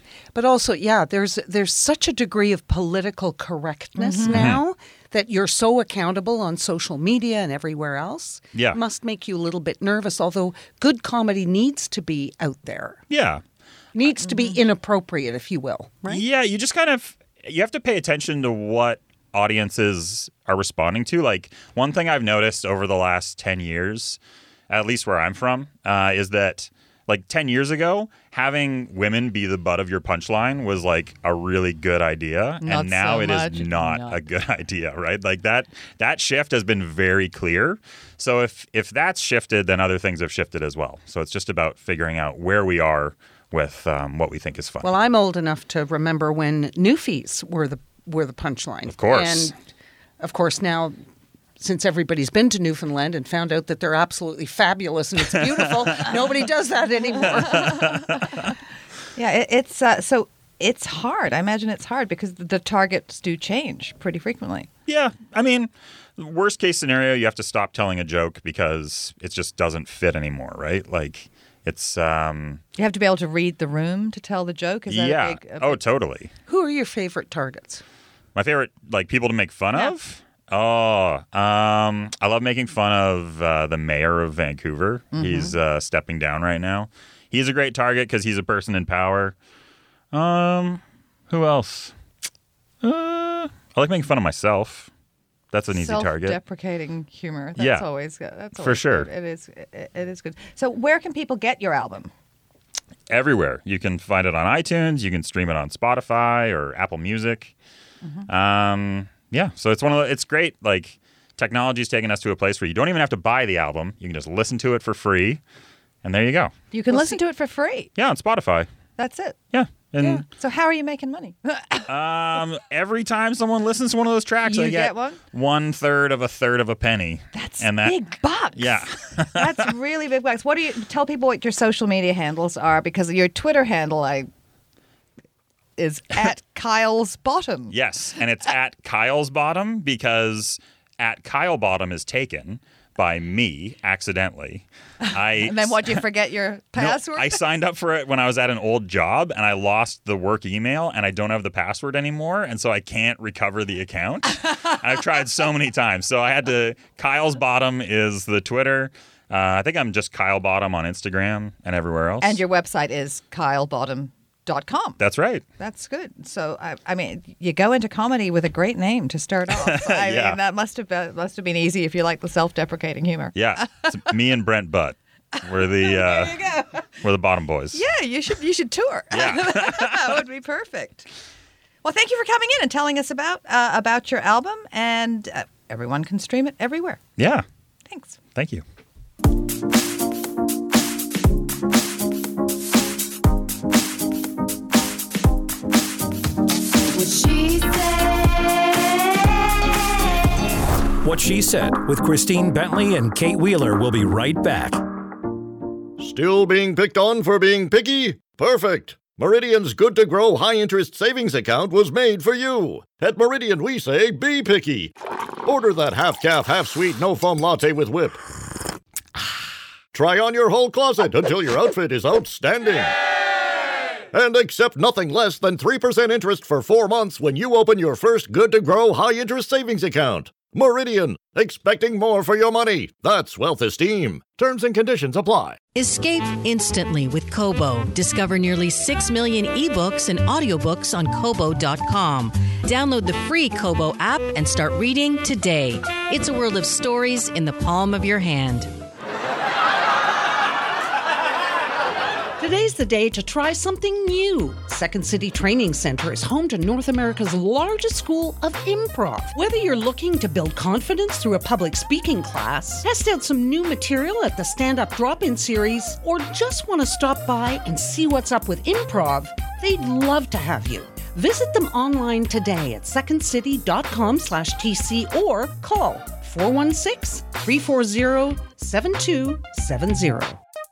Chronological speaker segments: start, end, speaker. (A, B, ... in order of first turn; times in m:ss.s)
0:00.3-0:13.0 A
0:04.0-0:04.5 B
0:04.2-0:04.6 C
0:13.1-0:13.4 C
0:13.9-0:16.2 A
0:14.3-0:14.6 C
0:16.1-0:45.0 C
0:32.6-0:34.2 B
0:44.8-0:49.6 A
0:48.9-0:49.5 C
0:50.2-0:51.0 A
0:51.6-0:58.2 A
0:55.6-0:56.1 C
0:59.2-1:04.7 B
1:04.9-1:12.6 C
1:12.8-1:15.8 B
1:14.9-1:16.3 C
1:16.5-1:17.8 A
1:18.4-1:29.4 C
1:25.1-1:25.6 B
1:30.1-1:31.9 C
1:32.8-1:34.9 C
1:35.5-1:36.4 C
1:35.7-1:42.1 B
1:37.6-1:37.9 C
1:38.6-1:39.1 C
1:43.1-1:47.5 C
1:48.0-1:48.3 B
1:48.3-1:55.4 C
1:56.0-1:57.2 C
1:56.7-1:57.9 B
1:58.0-1:58.7 C
1:59.0-1:59.4 B
1:59.5-2:00.2 C
2:00.0-2:01.9 B
2:01.9-2:08.0 C
2:04.4-2:05.2 B
2:07.3-2:14.3 B
2:08.6-2:09.5 C
2:15.8-2:17.7 B
2:17.7-2:26.0 C
2:25.0-2:27.4 B
2:26.8-2:42.4 C
2:42.2-2:45.0 B
2:45.0-2:45.4 C
2:45.6-2:53.9 B
2:49.5-2:50.4 C
2:53.4-2:57.8 C
2:55.8-2:56.7 B
2:57.7-3:01.1 B
2:59.1-3:00.2 C
3:01.8-3:07.1 B
3:07.2-3:07.4 C
3:07.9-3:08.2 B
3:08.4-3:08.6 C
3:16.9-3:19.5 D
3:21.0-3:24.8 E
3:26.0-3:34.9 F
3:35.5-3:38.2 F
3:39.9-3:42.9 F
3:44.1-3:55.6 F
3:55.8-4:08.7 G
4:12.4-4:40.4 A